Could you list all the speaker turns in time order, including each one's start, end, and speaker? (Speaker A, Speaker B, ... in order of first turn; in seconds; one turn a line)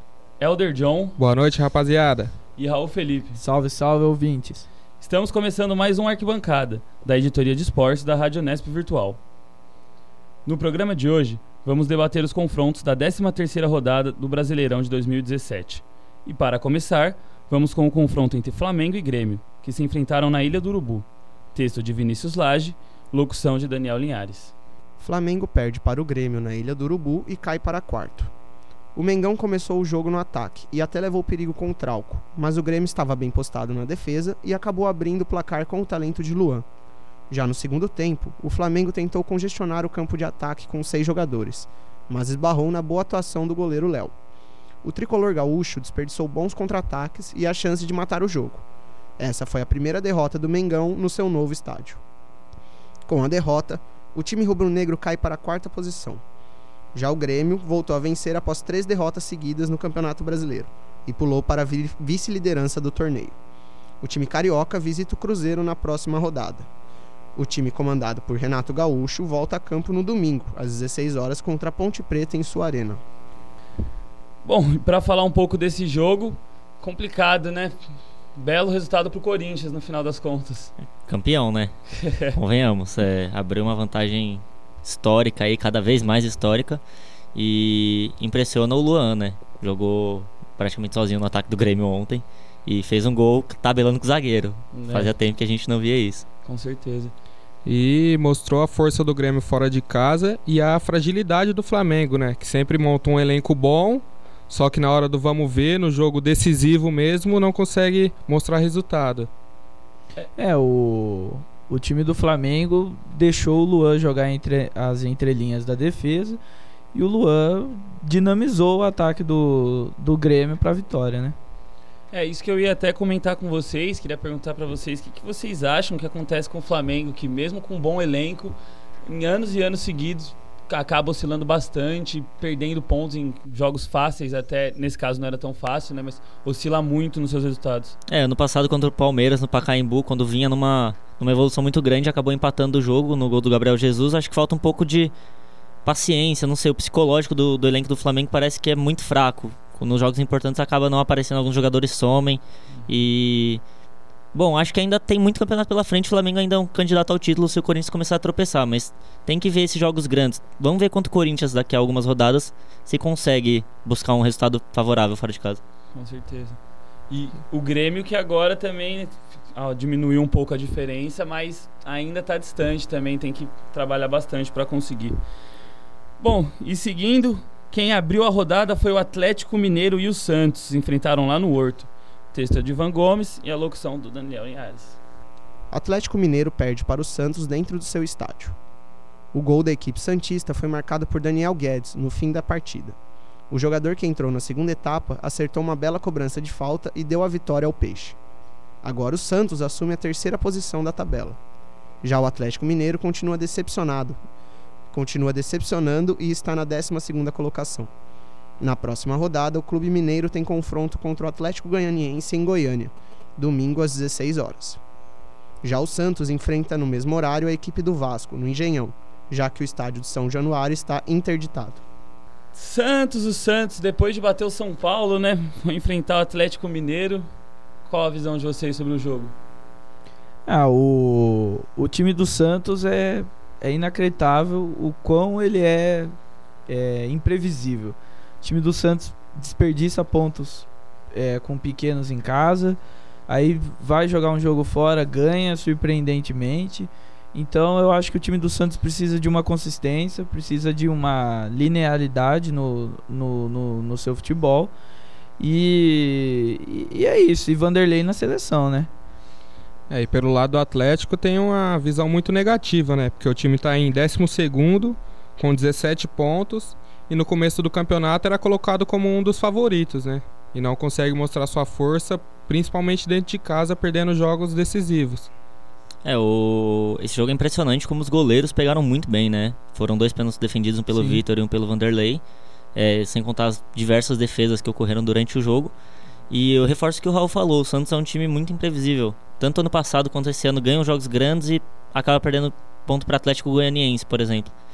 Speaker A: 0.4-1.2
Speaker B: 1.2-2.3
Speaker A: 2.6-3.4
Speaker C: 3.4-4.7
Speaker A: 5.0-9.2
Speaker A: 10.4-24.5
Speaker D: 25.0-28.3
Speaker D: 28.9-36.6
Speaker D: 37.3-44.1
Speaker D: 44.8-48.6
Speaker D: 49.2-52.0
Speaker D: 53.0-56.2
Speaker D: 56.9-63.4
Speaker D: 64.0-66.7
Speaker D: 67.3-73.0
Speaker A: 74.4-77.7
Speaker A: 78.4-80.7
Speaker E: 81.1-81.7
Speaker A: 82.0-82.3
Speaker E: 82.3-86.8
Speaker E: 87.3-96.2
Speaker A: 94.7-95.1
Speaker A: 96.4-97.1
Speaker B: 97.7-109.3
Speaker C: 110.4-116.4
Speaker C: 116.9-121.3
Speaker A: 122.1-128.5
Speaker A: 129.1-137.9
Speaker E: 138.1-145.1
Speaker E: 145.8-153.6
Speaker E: 154.3-165.6
Speaker A: 165.9-166.6
Speaker A: 167.1-175.2
Speaker A: 176.2-185.0
Speaker D: 185.7-188.6
Speaker D: 189.3-192.9
Speaker D: 193.5-198.2
Speaker D: 198.8-201.4
Speaker D: 202.0-204.2
Speaker D: 204.9-207.9
Speaker D: 208.6-214.8
Speaker D: 215.6-221.8
Speaker A: 222.5-227.3
Speaker A: 227.8-229.3
Speaker C: 230.4-236.1
Speaker C: 236.7-254.7
Speaker C: 255.4-258.9
Speaker B: 259.9-275.3
Speaker E: 276.0-282.2
Speaker C: 280.9-281.2
Speaker E: 282.7-285.7
Speaker E: 286.3-294.5